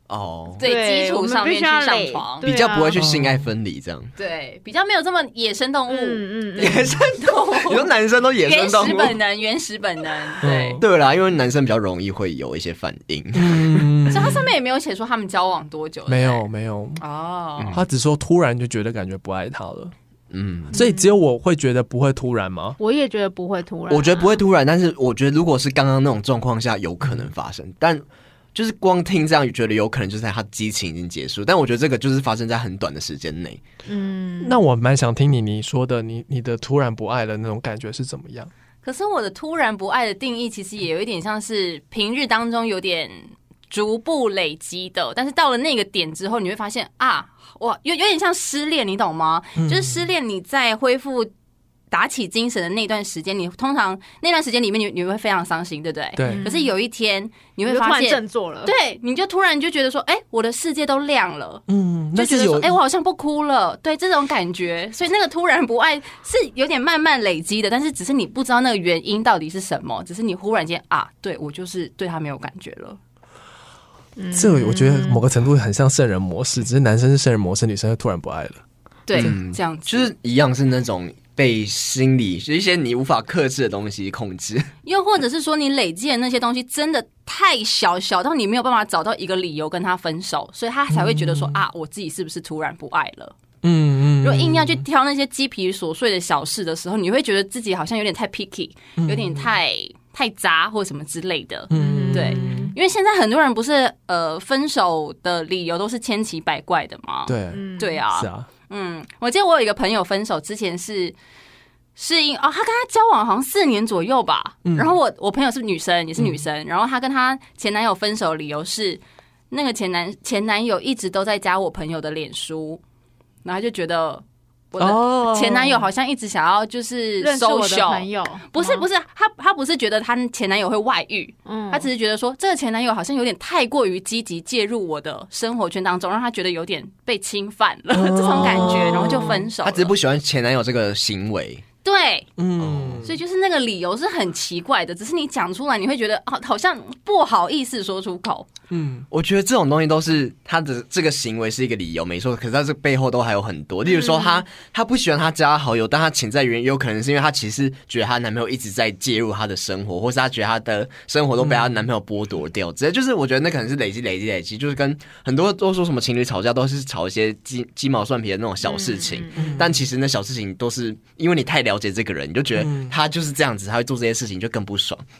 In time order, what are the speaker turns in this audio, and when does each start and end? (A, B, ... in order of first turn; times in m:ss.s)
0:00.1-0:00.6 A
0:00.6-0:02.5 B
0:00.6-0:03.0 C
0:02.4-0:04.1 A
0:03.0-0:03.5 D
0:04.2-0:07.9 B
0:05.9-0:07.0 C
0:06.6-0:09.2 A
0:08.4-0:10.8 B
0:10.4-0:10.8 D
0:10.8-0:13.9 A
0:13.3-0:14.5 D
0:14.1-0:16.4 B
0:16.1-0:17.0 D
0:17.0-0:17.8 B
0:17.6-0:17.8 A
0:17.7-0:19.9 D
0:20.3-0:20.8 A
0:20.7-0:22.8 D
0:20.7-0:21.2 C
0:22.8-0:24.4 C
0:23.9-0:28.0 A
0:27.0-0:27.3 D
0:28.6-0:33.6 A
0:33.8-0:34.6 C
0:34.4-0:38.5 D
0:38.8-0:51.3 B
0:49.6-0:50.0 D
0:51.9-1:13.0 B
0:56.2-0:56.5 D
0:56.2-0:56.7 C
0:57.7-0:58.7 C
1:01.7-1:02.8 D
1:14.2-1:15.2 C
1:14.3-1:18.6 D
1:19.1-1:20.1 B
1:19.1-1:24.7 A
1:24.8-1:33.3 B
1:30.9-1:31.6 D
1:33.6-1:34.8 D
1:34.2-1:51.2 B
1:39.0-1:39.5 D
1:41.7-1:42.8 D
1:41.7-1:42.7 C
1:47.3-1:48.5 D
1:47.5-1:48.0 C
1:52.0-2:02.8 B
1:54.6-1:54.9 D
2:03.4-2:19.9 B
2:04.8-2:05.6 D
2:05.4-2:05.8 C
2:07.2-2:08.9 C
2:11.5-2:11.9 C
2:17.9-2:19.5 D
2:18.5-2:21.6 A
2:21.8-2:22.3 B
2:22.4-2:23.2 D
2:22.6-2:23.1 A
2:23.0-2:28.5 B
2:28.7-2:29.1 D
2:29.1-2:55.1 A
2:33.9-2:34.4 C
2:41.4-2:41.9 D
2:48.6-2:49.6 C
2:49.4-2:49.8 D
2:52.6-2:52.9 D